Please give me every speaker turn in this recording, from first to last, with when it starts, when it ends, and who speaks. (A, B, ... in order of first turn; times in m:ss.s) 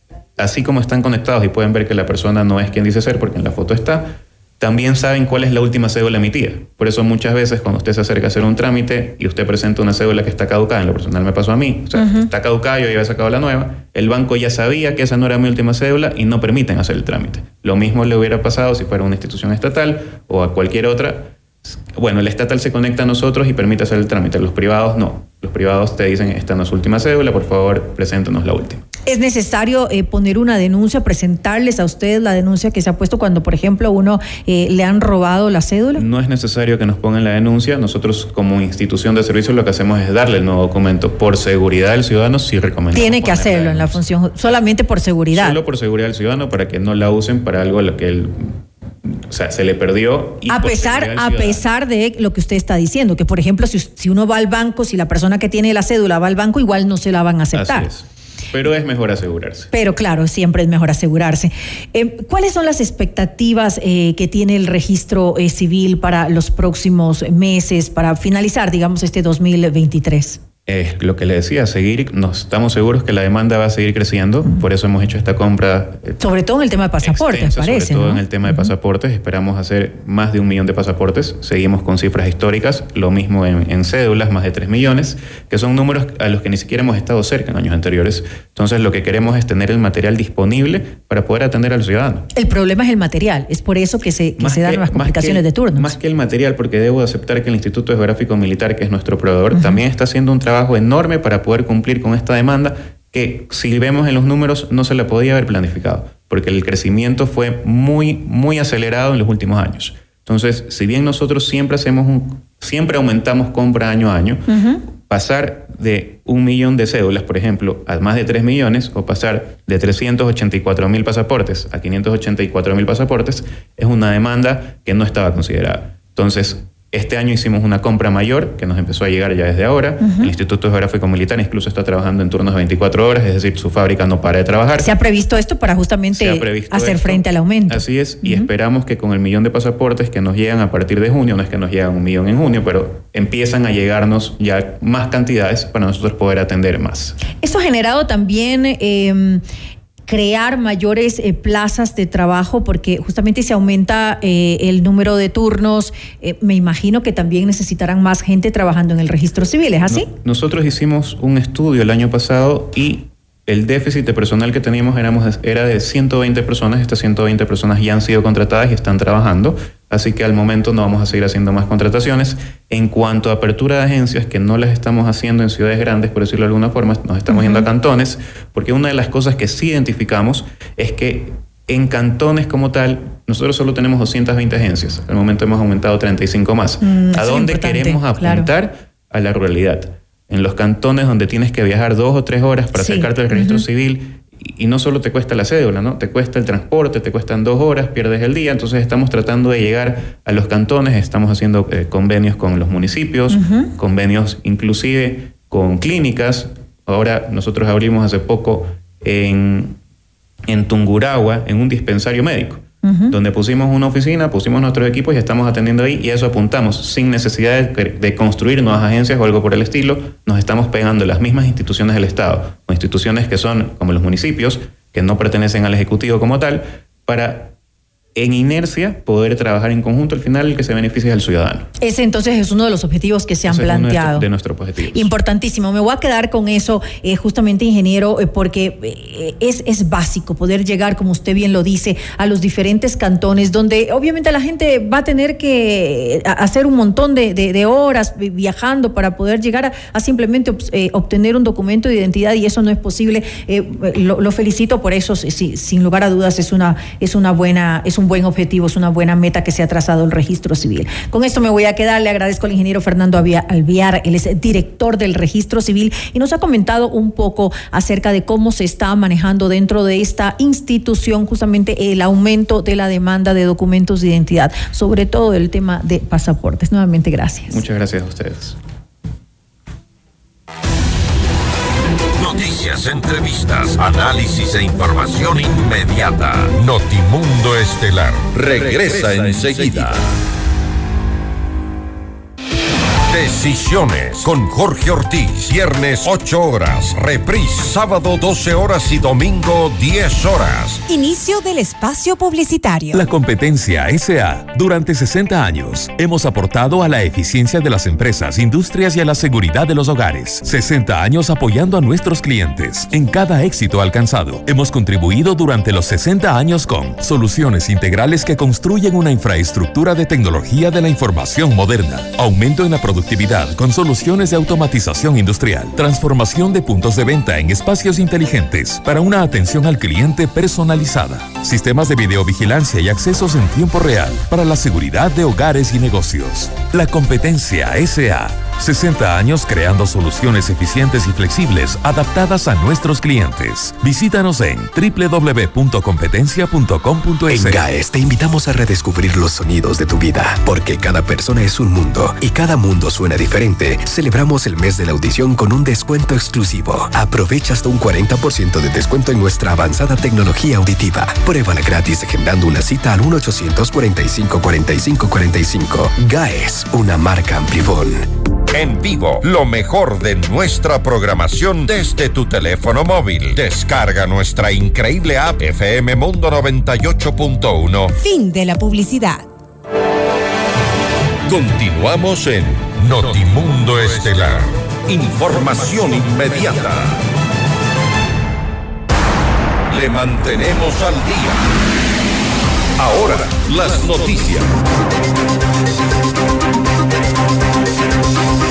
0:00.4-0:28.8 A
0:12.0-0:12.3 B
0:29.0-0:36.0 B
0:36.0-0:44.6 A
0:42.9-0:45.6 B
0:45.3-0:51.6 A
0:50.5-0:57.9 B
0:57.5-0:59.7 A
0:59.7-1:10.4 B
1:10.6-1:16.2 A
1:16.2-1:18.7 B
1:17.0-1:32.2 A
1:32.3-1:35.9 B
1:34.4-1:54.4 A
1:39.5-1:39.8 B
1:54.5-1:54.8 B
1:55.0-2:14.9 A
2:10.0-2:10.3 B
2:14.8-2:18.5 B
2:16.1-2:27.2 A
2:27.4-2:29.4 B
2:30.1-2:40.1 B
2:39.9-3:29.8 A
2:57.3-2:57.6 B
3:06.8-3:08.5 B
3:12.8-3:13.6 B
3:23.3-3:23.7 B
3:30.5-3:47.5 A
3:32.8-3:33.1 B
3:48.1-3:51.6 A
3:51.8-3:54.2 B
3:53.5-3:55.1 A
3:54.9-4:37.6 B
4:37.5-4:38.6 A
4:42.2-4:50.0 C
4:53.1-5:00.8 C
5:00.9-5:03.0 D
5:02.9-5:47.7 E
5:47.3-6:08.0 F
6:08.5-6:17.9 C
6:18.0-6:19.2 D
6:21.3-6:27.0 C
6:29.7-6:31.4 C
6:32.8-6:34.5 C